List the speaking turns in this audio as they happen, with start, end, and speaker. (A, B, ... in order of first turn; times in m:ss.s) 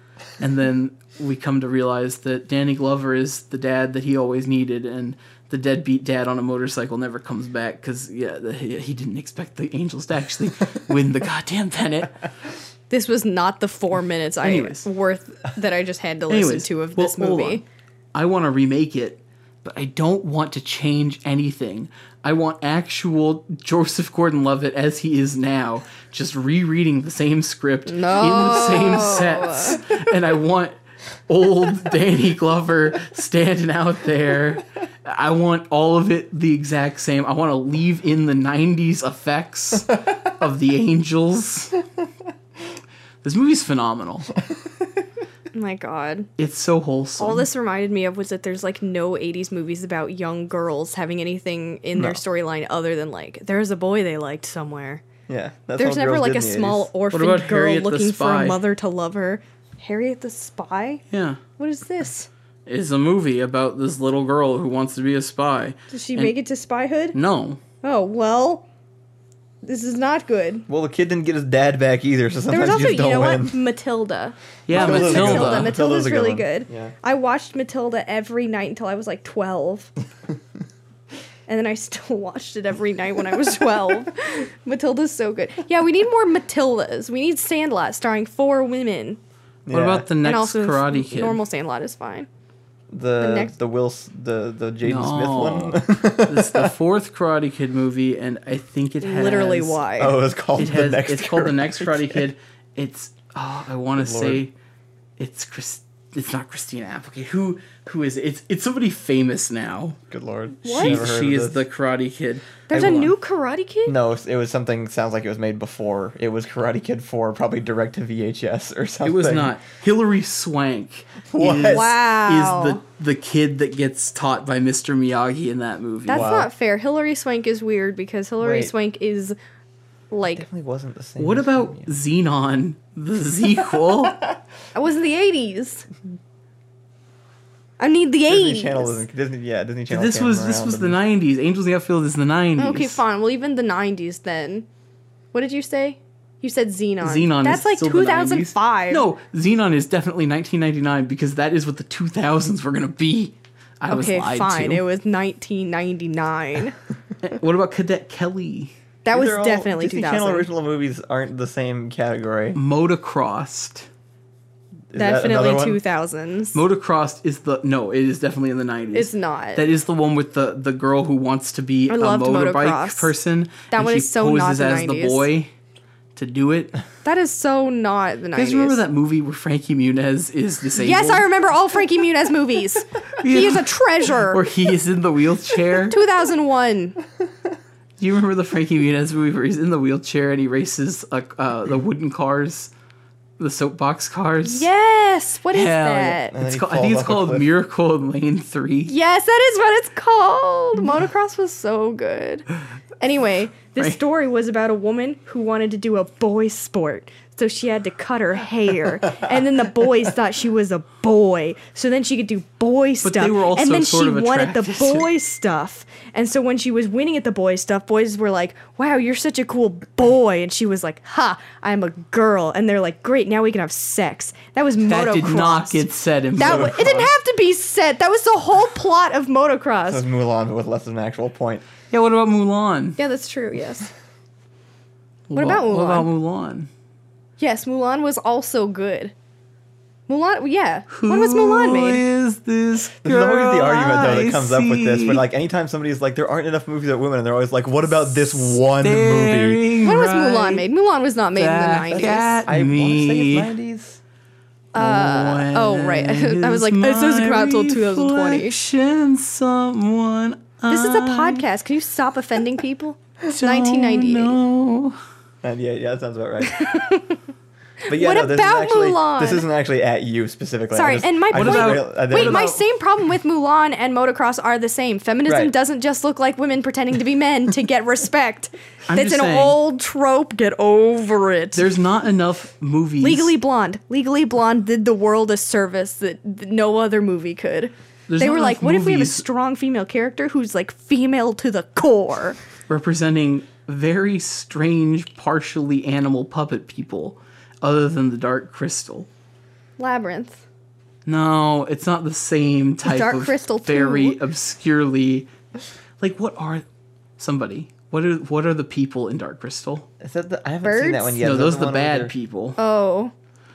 0:00.4-0:12.2 A
0:12.9-0:17.6 B
0:14.4-0:14.8 A
0:16.3-0:17.6 A
0:18.1-0:30.7 A
0:27.8-0:29.8 B
0:31.3-0:41.8 A
0:43.2-0:44.3 A
0:45.5-0:46.3 B
0:46.4-0:47.5 A
0:47.2-0:55.0 B
0:55.3-0:56.9 C
0:55.8-1:01.0 B
0:57.1-0:58.6 A
1:01.1-1:01.4 A
1:01.6-1:02.3 B
1:02.6-1:06.4 A
1:05.9-1:07.2 B
1:07.1-1:07.6 A
1:07.8-1:08.6 B
1:09.6-1:10.7 B
1:10.7-1:13.6 C
1:12.5-1:19.9 B
1:14.7-1:15.7 A
1:14.7-1:16.9 C
1:21.5-1:29.2 B
1:29.7-1:30.0 C
1:29.7-1:31.4 A
1:30.2-1:32.3 B
1:32.9-1:36.7 C
1:33.2-1:33.5 B
1:34.8-1:39.8 A
1:39.0-1:40.1 B
1:40.0-1:42.2 C
1:40.6-1:44.5 A
1:44.0-1:44.4 C
1:45.2-1:50.0 A
1:50.1-1:51.6 C
1:50.6-1:51.0 B
1:50.6-1:52.5 A
1:52.7-1:53.9 B
1:52.7-1:53.2 C
1:53.8-1:59.6 C
1:59.0-2:06.3 A
2:01.3-2:01.9 C
2:01.7-2:02.8 B
2:06.0-2:09.4 B
2:06.1-2:06.5 C
2:08.4-2:08.7 C
2:10.1-2:10.4 B
2:10.2-2:11.9 C
2:11.2-2:14.2 A
2:14.7-2:15.9 B
2:17.8-2:19.0 B
2:18.3-2:21.0 C
2:19.9-2:23.0 A
2:22.6-2:24.7 B
2:25.3-2:29.0 B
2:27.0-2:34.8 A
2:33.9-2:36.8 B
2:37.2-2:38.7 A
2:39.0-2:40.5 B
2:39.1-2:42.6 C
2:42.5-2:43.9 A
2:44.9-2:45.8 C
2:45.0-2:46.6 B
2:46.5-2:55.5 A
2:48.9-2:49.6 B
2:51.9-2:53.1 B
2:53.7-2:55.3 B
2:56.2-2:56.8 A
2:57.0-2:58.8 B
2:58.3-3:01.3 A
3:00.8-3:04.4 B
3:03.2-3:06.0 A
3:05.9-3:07.0 B
3:08.0-3:12.7 A
3:13.4-3:14.7 A
3:14.4-3:16.4 B
3:15.5-3:18.9 A
3:16.3-3:17.5 C
3:18.9-3:22.4 B
3:23.0-3:45.8 B
3:33.0-3:35.1 A
3:44.9-3:47.1 A
3:46.4-3:50.0 B
3:46.4-3:47.1 C
3:49.9-3:51.6 C
3:51.9-3:53.0 A
3:53.0-3:53.9 B
3:55.3-3:56.7 A
3:55.3-3:56.1 B
3:57.4-3:59.1 B
4:00.1-4:02.0 B
4:00.9-4:05.2 A
4:03.0-4:09.6 C
4:08.1-4:10.6 A
4:09.8-4:12.4 B
4:11.3-4:13.5 A
4:11.9-4:14.0 C
4:14.7-4:18.6 B
4:14.7-4:21.4 A
4:20.7-4:24.4 B
4:23.3-4:25.0 A
4:25.4-4:26.8 C
4:26.4-4:27.2 B
4:27.8-4:29.5 B
4:27.9-4:32.4 C
4:30.7-4:41.7 B
4:31.3-4:32.6 A
4:35.3-4:35.5 C
4:38.9-4:39.6 A
4:41.5-4:43.3 A
4:43.0-4:52.4 B
4:48.1-4:49.2 A
4:52.7-4:59.1 A
4:59.8-5:00.4 B
5:01.0-5:05.3 A
5:02.8-5:04.2 B
5:06.0-5:06.6 A
5:07.2-5:09.9 A
5:10.0-5:12.1 C
5:10.6-5:11.2 B
5:11.2-5:12.6 A
5:12.6-5:13.1 B